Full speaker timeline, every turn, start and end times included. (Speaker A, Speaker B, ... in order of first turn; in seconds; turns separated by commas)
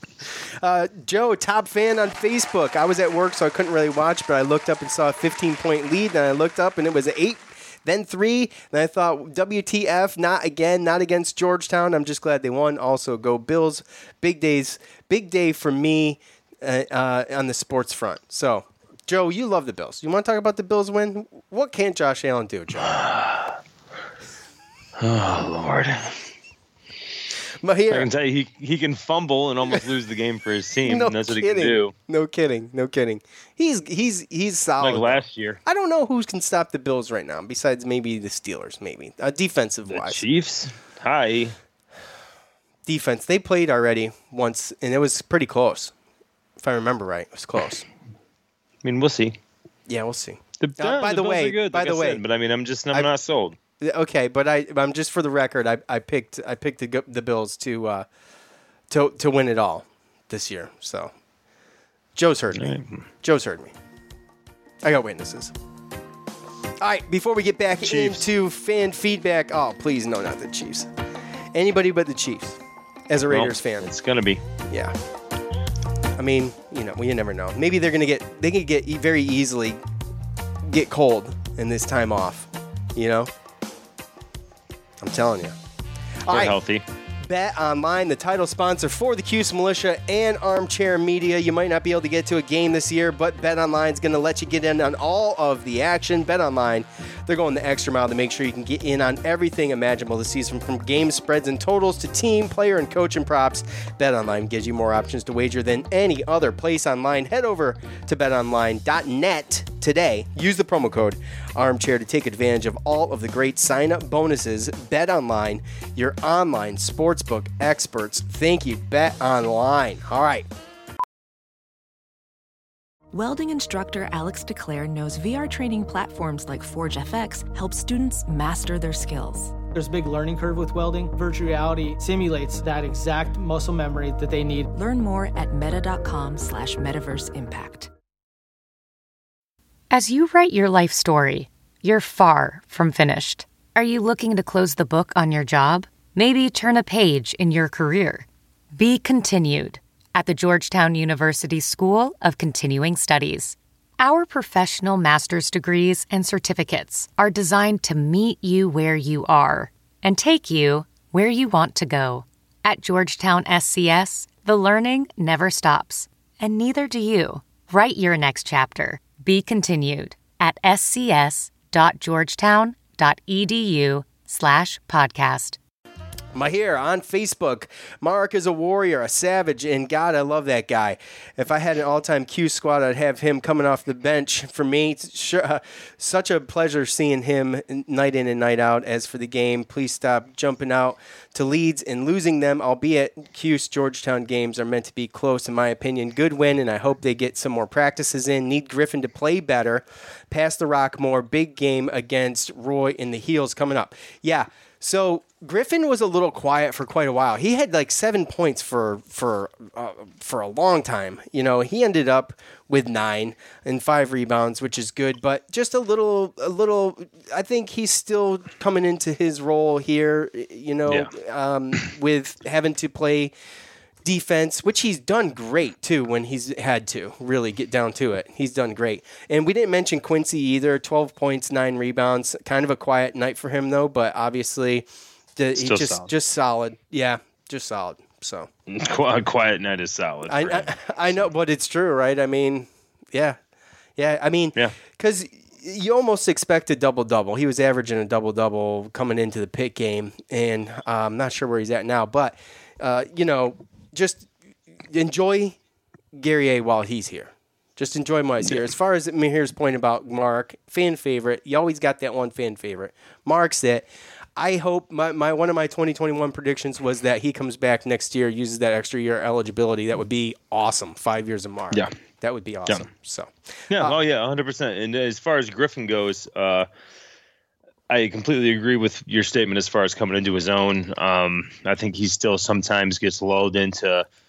Speaker A: 0.4-23.0, Speaker B: 22.8-23.6, Speaker B: 25.0-26.2, Speaker A: 27.6-28.1, Speaker B: 27.9-31.9, Speaker A: 30.9-40.2, Speaker B: 34.8-35.6, Speaker B: 39.9-41.6, Speaker A: 42.9-45.9, Speaker A: 46.6-47.9, Speaker B: 48.8-49.4, Speaker A: 49.9-52.2, Speaker B: 50.6-53.6, Speaker A: 53.8-58.1, Speaker A: 58.9-61.1, Speaker A: 62.2-63.7, Speaker B: 62.5-63.0, Speaker A: 64.8-65.5, Speaker A: 66.8-70.9, Speaker B: 67.8-68.2, Speaker A: 71.5-73.9, Speaker B: 73.3-74.4, Speaker A: 74.7-75.0, Speaker A: 76.2-79.8, Speaker A: 80.6-83.3, Speaker A: 85.0-85.6, Speaker A: 86.2-86.6, Speaker B: 86.3-86.8, Speaker A: 87.2-120.5, Speaker C: 123.1-129.6, Speaker D: 129.6-134.7, Speaker C: 134.7-137.9, Speaker E: 139.9-175.6, Speaker A: 176.3-223.3, Speaker A: 224.0-238.5, Speaker B: 235.6-236.1, Speaker B: 238.7-241.3, Speaker A: 240.3-243.4, Speaker A: 244.0-254.3, Speaker A: 254.9-255.6, Speaker A: 256.1-274.0, Speaker B: 273.7-276.7, Speaker B: 277.9-284.1